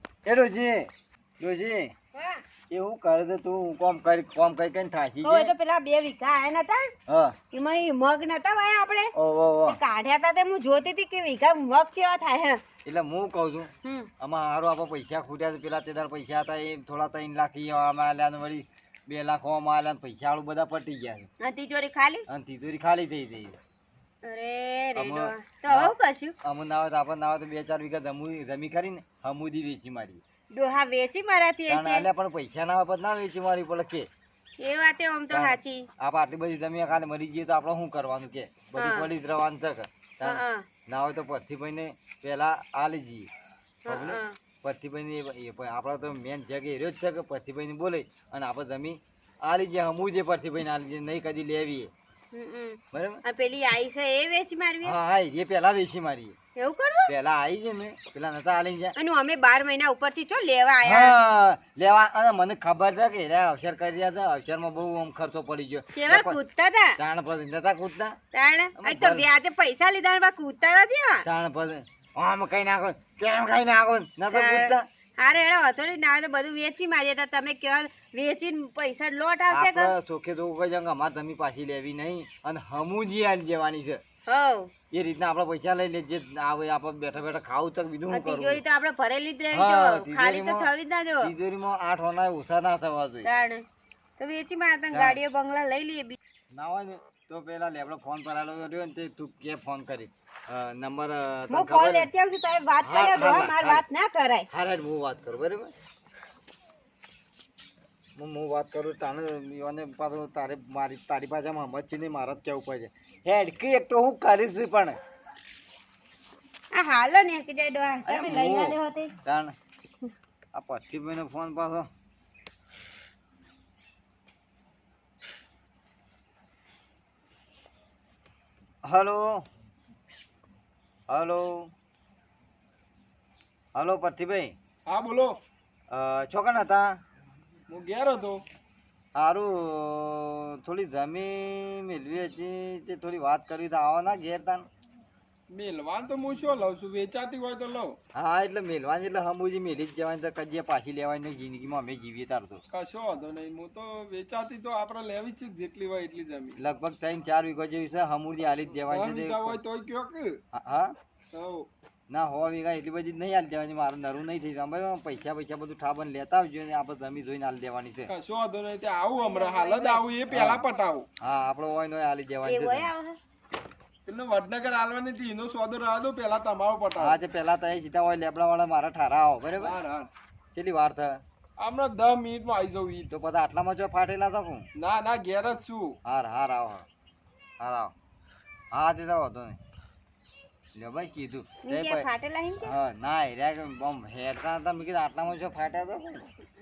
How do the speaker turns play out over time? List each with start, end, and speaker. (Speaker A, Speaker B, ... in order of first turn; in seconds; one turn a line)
Speaker A: 0.2-1.9
Speaker B: 2.1-2.4
Speaker A: 2.7-5.5
Speaker B: 5.2-6.9
Speaker A: 7.1-7.4
Speaker B: 7.5-9.1
Speaker A: 9.1-9.8
Speaker B: 9.7-12.6
Speaker A: 12.8-21.3
Speaker B: 13.8-14.1
Speaker B: 21.4-22.3
Speaker A: 22.3-23.6
Speaker B: 24.2-26.4
Speaker A: 24.9-30.2
Speaker B: 30.5-32.1
Speaker A: 31.7-34.1
Speaker B: 34.6-35.9
Speaker A: 35.3-43.3
Speaker B: 38.8-39.1
Speaker B: 40.2-40.7
Speaker B: 43.9-44.4
Speaker A: 43.9-51.9
Speaker B: 52.3-55.0
Speaker A: 52.9-53.2
Speaker A: 54.8-56.4
Speaker B: 56.6-57.1
Speaker A: 57.1-59.0
Speaker B: 59.0-61.2
Speaker A: 60.8-66.4
Speaker B: 65.9-67.0
Speaker A: 67.0-68.2
Speaker B: 68.3-71.3
Speaker A: 68.8-69.3
Speaker A: 71.2-74.9
Speaker B: 74.3-79.9
Speaker A: 79.5-84.0
Speaker B: 84.3-84.7
Speaker A: 84.9-88.6
Speaker B: 88.1-91.3
Speaker A: 89.5-93.3
Speaker B: 93.2-93.7
Speaker B: 94.2-96.2
Speaker A: 94.9-95.2
Speaker A: 96.5-102.1
Speaker B: 101.5-104.5
Speaker A: 102.8-103.8
Speaker A: 104.5-105.7
Speaker A: 108.2-115.0
Speaker B: 116.7-119.1
Speaker A: 118.0-119.5
Speaker A: 120.5-121.9
Speaker A: 128.8-129.5
Speaker A: 131.1-131.7
Speaker A: 133.8-134.6
Speaker C: 134.9-135.4
Speaker A: 135.9-137.0
Speaker C: 137.7-138.4
Speaker A: 139.2-144.7
Speaker C: 145.5-147.9
Speaker A: 148.2-152.6
Speaker C: 152.7-156.6
Speaker A: 156.6-159.6
Speaker C: 158.9-160.4
Speaker A: 160.5-160.9
Speaker C: 161.3-161.7
Speaker A: 162.1-168.1
Speaker C: 168.1-171.1
Speaker B: 169.2-170.0
Speaker A: 170.3-170.6
Speaker A: 171.2-172.9
Speaker B: 172.4-173.2
Speaker C: 174.1-177.2
Speaker A: 177.0-179.8
Speaker C: 179.6-180.1
Speaker A: 180.5-181.2
Speaker C: 181.6-183.1
Speaker A: 183.1-184.7
Speaker C: 184.8-185.9
Speaker A: 186.1-186.8
Speaker A: 187.6-187.9
Speaker A: 188.7-189.6
Speaker A: 190.8-192.1
Speaker B: 191.7-192.7
Speaker A: 192.6-196.3